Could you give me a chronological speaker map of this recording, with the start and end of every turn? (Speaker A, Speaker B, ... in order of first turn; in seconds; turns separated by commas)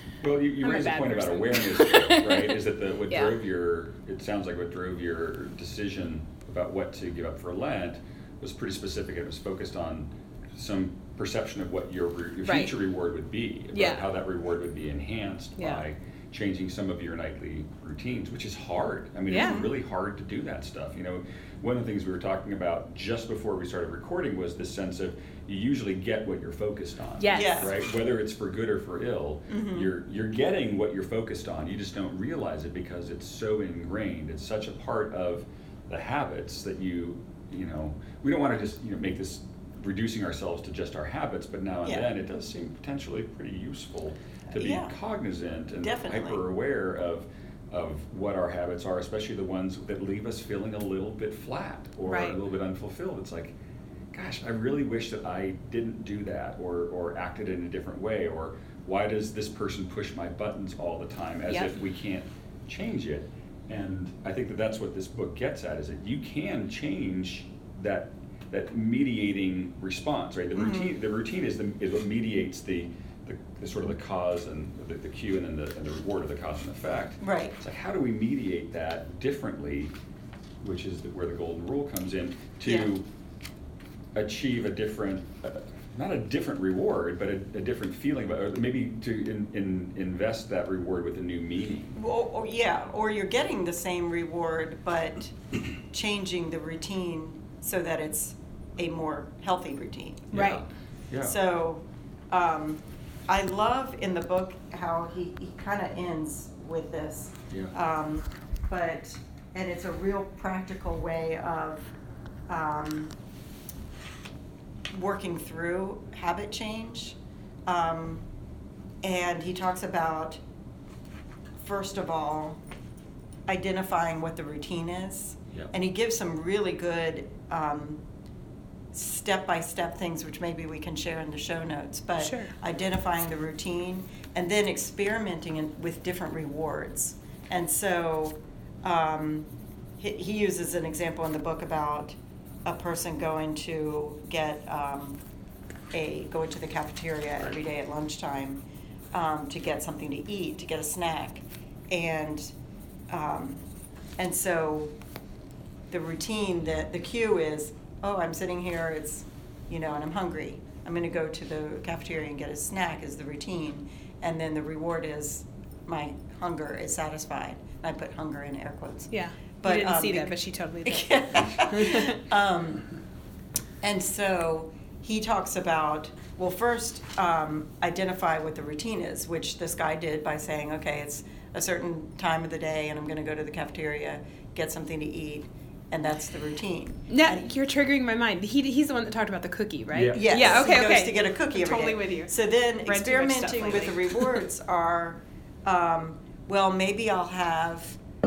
Speaker A: 0.2-53.5, Speaker B: 0.6-2.6, Speaker B: 3.1-3.3, Speaker B: 12.4-12.7, Speaker B: 13.7-14.1, Speaker B: 15.6-15.8, Speaker B: 19.3-19.6, Speaker C: 19.3-19.7, Speaker B: 27.2-27.7, Speaker C: 27.3-27.8, Speaker C: 29.5-29.9, Speaker C: 44.5-44.9, Speaker C: 45.8-46.4, Speaker B: 52.1-52.4, Speaker A: 54.1-79.9, Speaker B: 61.5-61.8, Speaker C: 70.5-71.0, Speaker C: 77.2-77.6, Speaker A: 80.6-83.0, Speaker C: 82.7-82.9, Speaker A: 84.2-92.0, Speaker C: 92.0-100.3, Speaker A: 100.3-101.3, Speaker B: 100.3-100.6, Speaker C: 101.2-111.9, Speaker C: 112.5-113.1, Speaker C: 114.9-118.3, Speaker C: 119.0-120.4, Speaker C: 121.6-122.6, Speaker C: 123.5-128.0, Speaker C: 128.9-145.2, Speaker B: 132.2-132.5, Speaker C: 145.9-152.5, Speaker C: 153.1-153.6, Speaker C: 154.2-154.9, Speaker C: 155.9-172.9, Speaker B: 169.1-172.2, Speaker C: 173.8-187.4, Speaker B: 187.1-192.3, Speaker A: 189.9-190.7, Speaker C: 190.1-198.0, Speaker B: 192.8-194.4